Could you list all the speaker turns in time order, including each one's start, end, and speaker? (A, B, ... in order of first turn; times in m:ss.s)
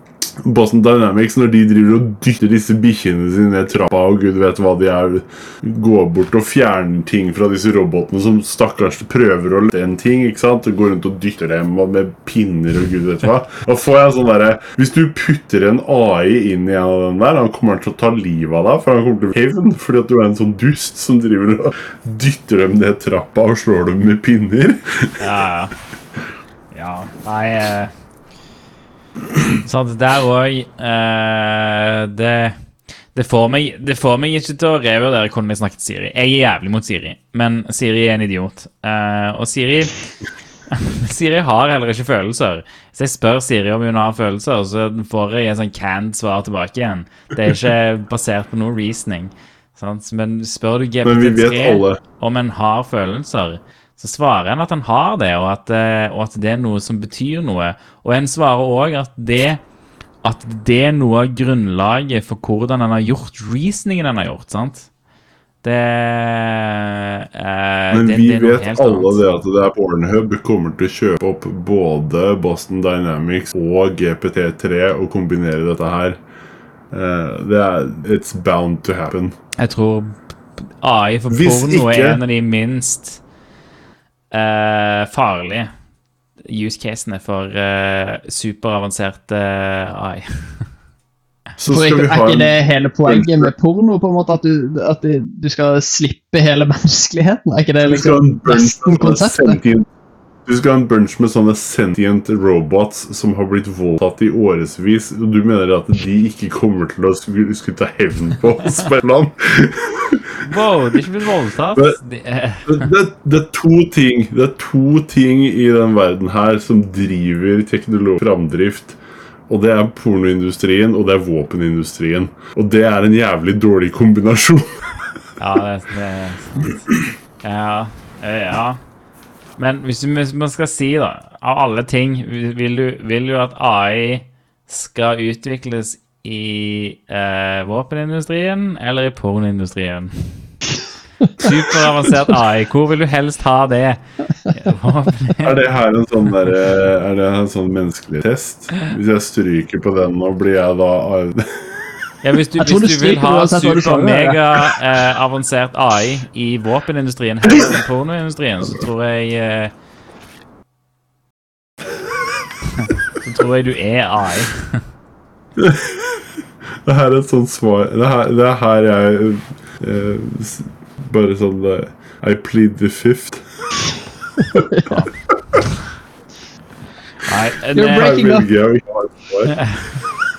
0:00.4-0:25.2 A
0:25.2-0:25.8 B
0:26.7-0:27.9 B
0:29.5-0:32.6 B
0:33.1-0:40.0 B
0:40.7-0:59.6 B
0:51.0-0:52.0 A
1:00.2-1:04.9 B
1:05.6-1:09.2 B
1:07.9-1:16.2 A
1:16.9-1:19.4 A
1:19.6-1:20.2 B
1:20.8-1:23.2 B
1:21.3-1:22.2 A
1:24.3-1:25.7 B
1:26.4-1:30.2 B
1:31.6-1:32.6 A
1:31.7-1:39.6 C
1:33.1-1:33.5 A
1:37.8-1:39.9 A
1:40.5-1:50.5 A
1:50.4-1:52.9 B
1:52.7-2:04.8 A
2:05.4-2:06.7 B
2:07.4-2:08.8 B
2:09.6-2:20.5 B
2:21.3-2:21.5 C
2:21.4-2:25.6 B
2:25.4-2:32.0 A
2:32.2-2:39.7 B
2:32.6-2:34.6 C
2:37.5-2:37.8 A
2:42.8-2:44.8 B
2:45.6-2:46.2 A
2:46.8-2:53.4 A
2:54.5-2:54.8 A
2:54.8-2:55.8 B
2:57.2-2:58.4 B
2:57.8-2:58.5 C
2:57.8-3:00.3 A
2:59.5-3:00.0 B